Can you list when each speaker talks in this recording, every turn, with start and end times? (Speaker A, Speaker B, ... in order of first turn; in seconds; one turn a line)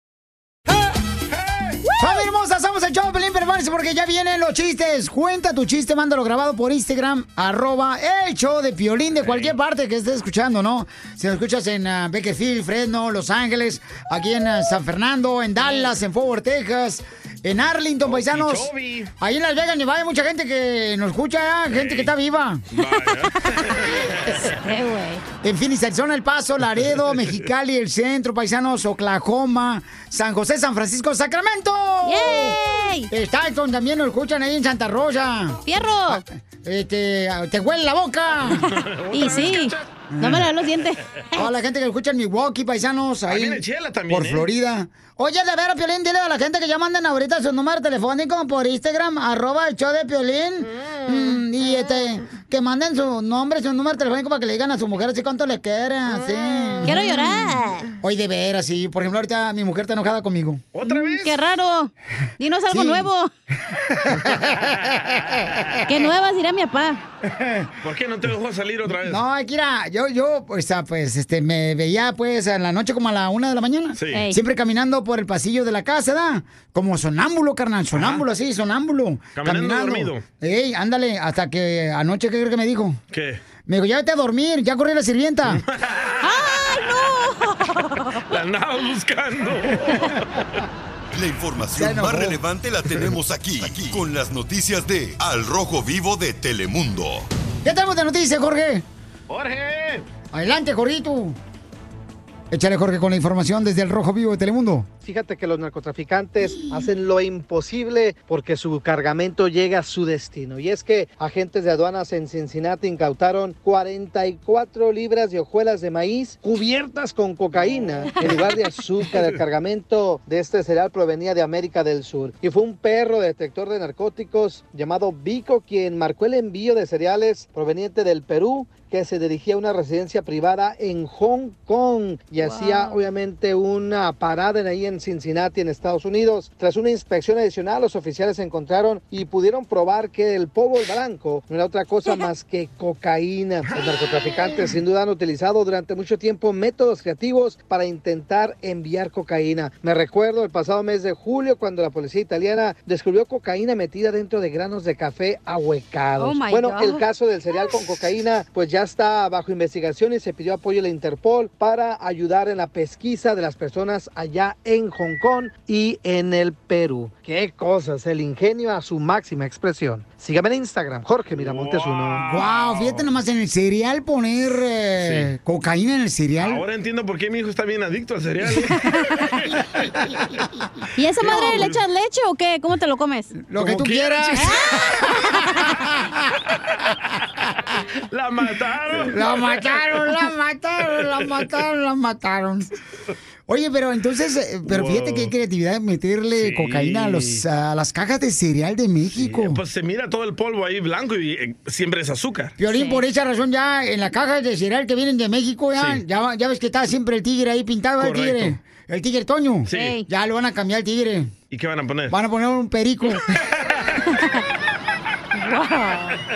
Speaker A: 1.3-1.8
Speaker B: 2.0-22.6
Speaker A: 9.2-9.5
Speaker A: 18.0-19.1
Speaker A: 21.7-22.1
Speaker A: 22.7-24.5
Speaker C: 24.5-25.2
Speaker B: 25.4-38.6
Speaker C: 32.0-33.1
Speaker C: 35.7-36.2
Speaker A: 38.8-39.8
Speaker C: 39.1-41.4
Speaker B: 40.1-40.5
Speaker B: 41.3-60.6
Speaker A: 43.3-44.5
Speaker C: 56.8-57.9
Speaker A: 60.7-61.4
Speaker C: 60.8-63.3
Speaker B: 62.7-63.1
Speaker B: 63.9-65.9
Speaker C: 65.9-67.0
Speaker B: 67.2-67.7
Speaker A: 67.8-69.2
Speaker B: 69.0-83.0
Speaker A: 74.0-74.2
Speaker A: 77.9-78.2
Speaker A: 79.3-80.2
Speaker A: 83.1-83.4
Speaker B: 83.7-85.6
Speaker A: 85.5-86.6
Speaker C: 86.2-88.2
Speaker A: 88.3-90.4
Speaker D: 91.1-97.3
Speaker B: 91.7-92.4
Speaker B: 97.6-98.8
Speaker A: 99.3-100.0
Speaker B: 100.3-101.4
Speaker B: 102.5-104.9
Speaker E: 105.0-172.3
Speaker B: 106.4-106.8
Speaker C: 132.4-133.1
Speaker A: 143.7-144.0
Speaker C: 156.2-157.0
Speaker A: 171.3-173.1
Speaker B: 172.2-176.6
Speaker A: 175.0-175.3
Speaker A: 176.4-178.8
Speaker C: 180.9-183.4
Speaker B: 181.2-181.7
Speaker A: 181.4-181.6
Speaker B: 183.4-186.3
Speaker A: 183.6-184.4
Speaker A: 188.1-189.3
Speaker B: 189.0-192.7
Speaker B: 193.5-199.6
Speaker A: 194.7-195.3
Speaker A: 196.3-197.4
Speaker A: 199.2-202.5
Speaker B: 202.6-211.3
Speaker C: 202.7-203.0
Speaker A: 205.7-206.0
Speaker A: 208.0-208.6
Speaker C: 209.7-210.1
Speaker A: 211.5-212.2
Speaker B: 212.1-213.3
Speaker C: 214.1-214.4
Speaker C: 215.3-216.2